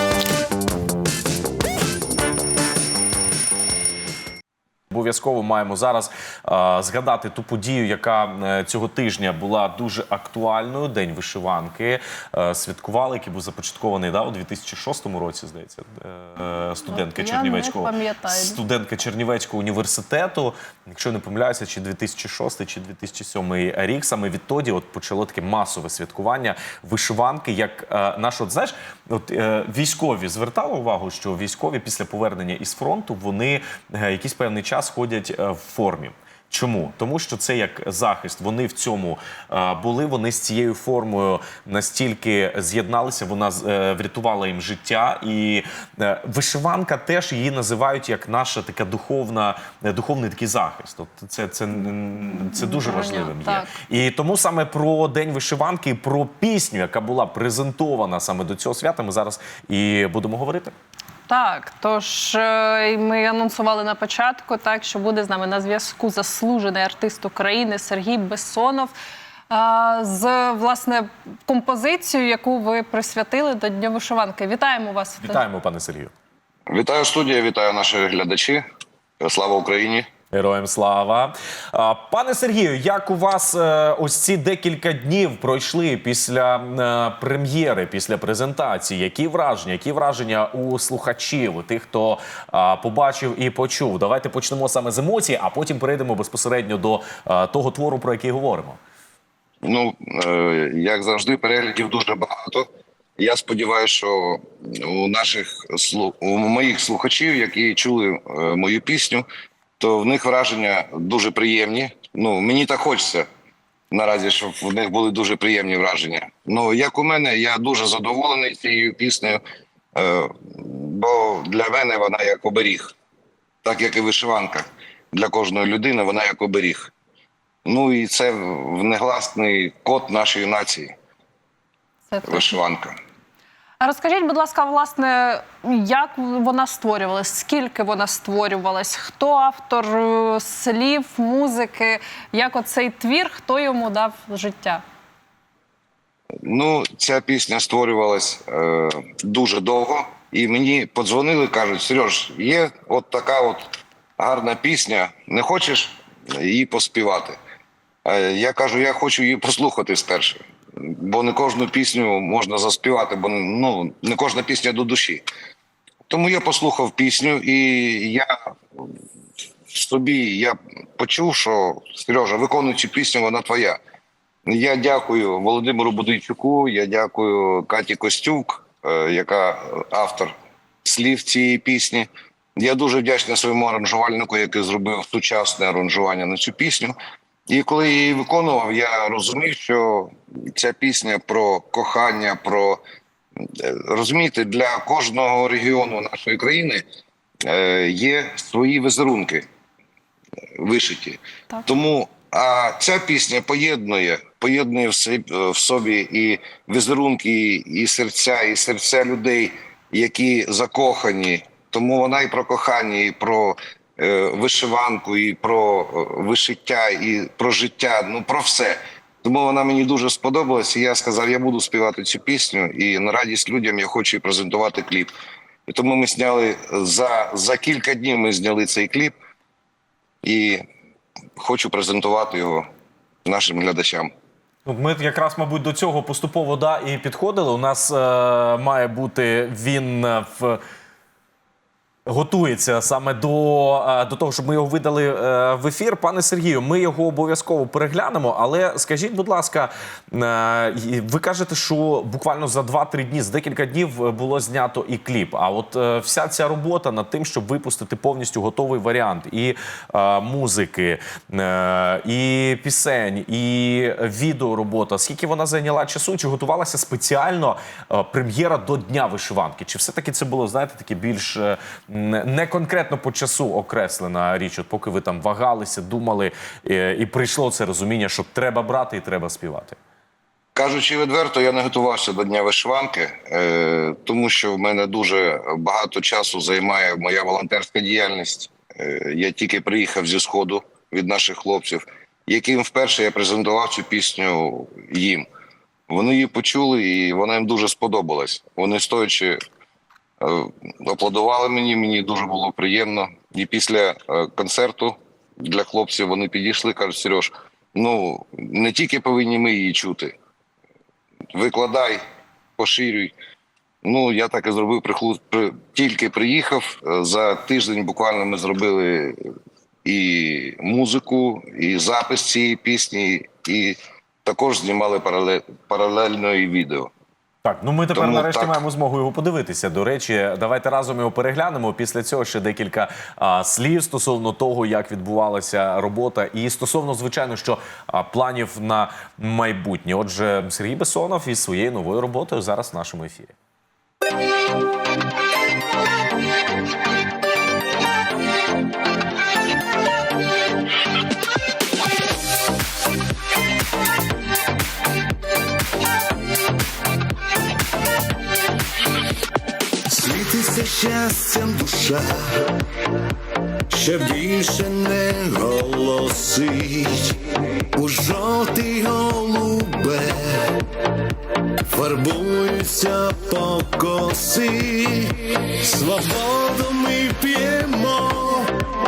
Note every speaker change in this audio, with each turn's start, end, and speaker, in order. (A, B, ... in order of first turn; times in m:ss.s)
0:04.9-1:00.7 A
0:16.9-0:18.6 B
0:52.6-0:53.7 B
1:01.3-1:08.9 B
1:09.5-1:15.4 B
1:15.2-1:16.1 A
1:16.7-1:18.6 C
1:19.2-1:20.0 C
1:20.3-1:38.8 A
1:39.6-1:49.2 C
1:49.8-1:53.2 C
1:53.9-1:59.4 C
1:59.9-2:02.9 C
2:03.6-2:06.9 C
2:07.6-2:10.9 C
2:12.1-2:12.6 B
2:12.2-2:13.0 C
2:13.8-2:24.8 B
2:26.4-2:37.4 C
2:38.0-2:45.2 C
2:46.1-2:48.3 C
2:49.7-2:53.8 C
2:54.5-3:06.9 C
3:07.5-3:12.8 C
3:13.5-3:16.8 C
3:17.4-3:19.4 C
3:20.6-3:45.1 C
3:45.7-3:49.1 C
3:50.2-3:50.6 C
3:51.4-3:52.6 C
3:53.2-3:54.1 C
3:54.6-4:00.6 A
4:02.0-4:39.8 A
4:40.5-4:55.2 C
4:55.9-4:59.4 C
5:00.2-5:10.1 C
5:11.3-5:12.0 C
5:12.6-5:13.1 C
5:13.8-5:19.2 C
5:19.8-5:26.9 C
5:27.4-5:43.3 A
5:27.9-5:28.6 C
5:59.9-6:02.5 D
6:03.7-6:07.2 D
6:07.7-6:10.6 D
6:11.7-6:18.5 D